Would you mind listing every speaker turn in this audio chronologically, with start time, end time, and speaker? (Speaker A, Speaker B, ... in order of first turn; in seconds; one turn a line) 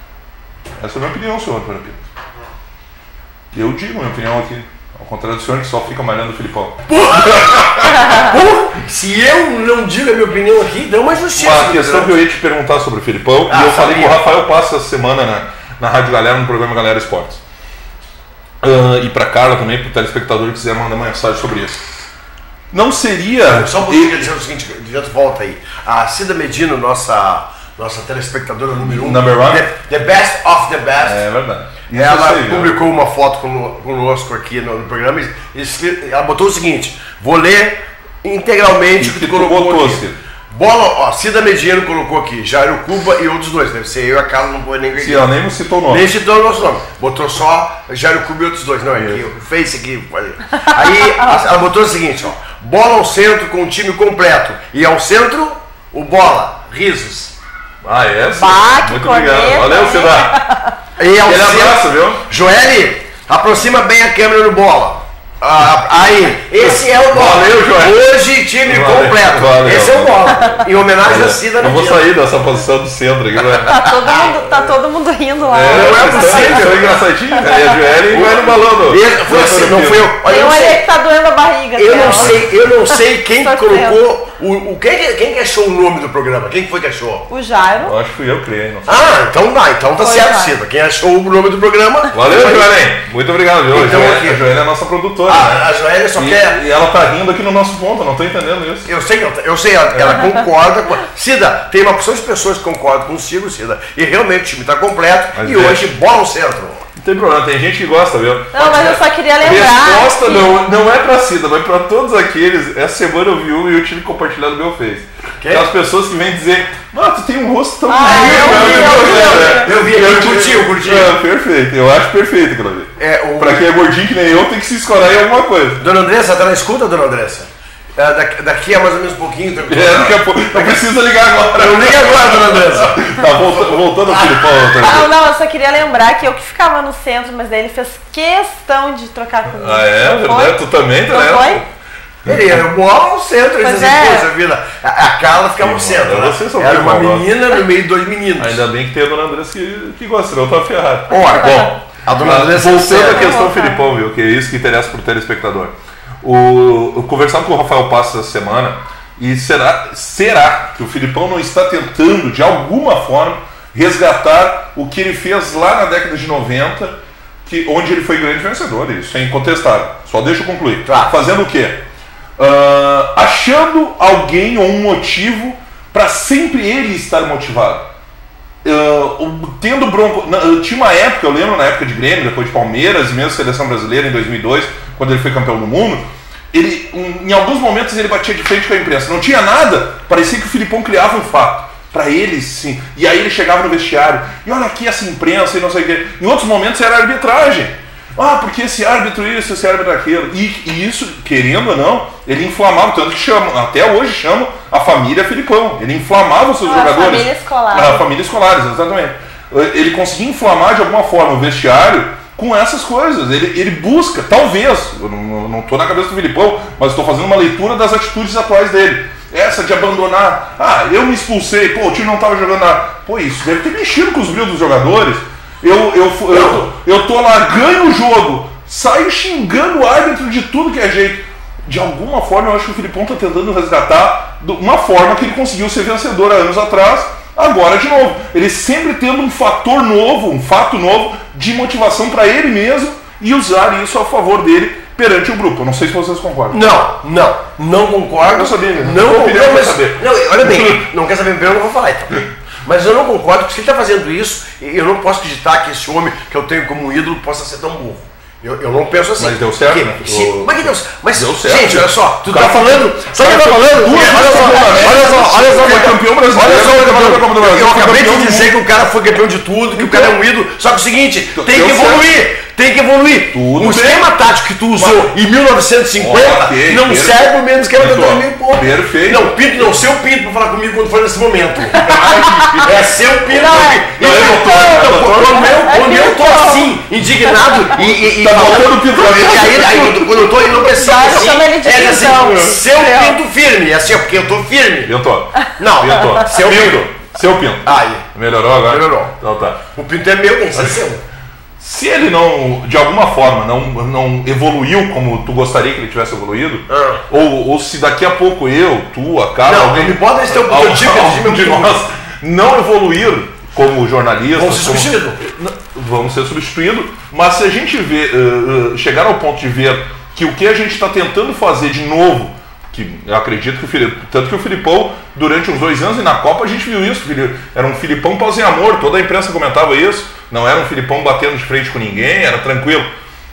Speaker A: 0.8-2.1
Speaker A: 3.5-8.1
Speaker B: 6.9-12.2
Speaker A: 11.3-17.4
Speaker B: 13.5-14.2
Speaker A: 18.6-21.8
Speaker A: 22.7-24.3
Speaker B: 23.4-31.2
Speaker A: 28.8-29.7
Speaker A: 31.0-32.8
Speaker B: 31.9-45.3
Speaker A: 39.0-40.2
Speaker A: 45.0-46.0
Speaker B: 45.9-57.4
Speaker A: 49.0-49.2
Speaker A: 57.8-60.5
Speaker C: 58.3-60.7
Speaker B: 61.0-72.1
Speaker A: 61.2-62.2
Speaker A: 66.6-68.0
Speaker A: 68.6-73.8
Speaker C: 73.7-76.6
Speaker B: 73.8-74.6
Speaker A: 75.5-80.1
Speaker B: 75.7-77.0
Speaker B: 78.1-80.8
Speaker C: 80.2-82.4
Speaker B: 81.8-87.3
Speaker A: 82.0-82.4
Speaker C: 83.4-84.0
Speaker C: 87.3-88.0
Speaker A: 87.8-89.1
Speaker B: 88.8-92.8
Speaker C: 90.0-90.5
Speaker A: 92.1-98.9
Speaker B: 93.7-94.4
Speaker B: 95.3-96.6
Speaker B: 98.9-106.8
Speaker A: 99.9-100.2
Speaker A: 105.3-105.9
Speaker A: 107.0-125.8
Speaker C: 108.5-110.6
Speaker B: 115.4-115.7
Speaker C: 117.9-119.7
Speaker B: 118.0-121.1
Speaker B: 123.0-123.7
Speaker B: 125.8-130.8
Speaker A: 129.7-135.1
Speaker B: 131.6-134.6
Speaker C: 134.8-141.6
Speaker A: 139.5-141.7
Speaker B: 142.2-148.6
Speaker C: 143.6-144.3
Speaker A: 145.6-147.3
Speaker A: 148.4-171.8
Speaker C: 151.1-151.7
Speaker B: 152.0-153.3
Speaker C: 152.9-153.8
Speaker B: 170.8-171.1
Speaker A: 172.4-177.9
Speaker A: 178.6-246.7
Speaker C: 206.6-208.0
Speaker B: 226.3-226.7
Speaker B: 246.5-282.0
Speaker A: 248.2-250.8
Speaker A: 259.2-268.5
Speaker A: 269.7-270.1
Speaker A: 271.3-272.1
Speaker A: 273.3-274.0
Speaker A: 274.8-275.1
Speaker A: 276.0-279.3
Speaker A: 281.8-282.9
Speaker B: 282.6-294.9
Speaker A: 283.4-285.5
Speaker C: 283.4-286.7
Speaker A: 288.1-290.5
Speaker C: 290.7-293.1
Speaker A: 294.9-299.6
Speaker B: 295.6-296.8
Speaker B: 297.6-298.1
Speaker B: 298.6-299.1
Speaker B: 299.7-301.0
Speaker A: 301.6-332.9
Speaker B: 306.7-307.0
Speaker B: 309.4-311.8
Speaker B: 314.4-315.2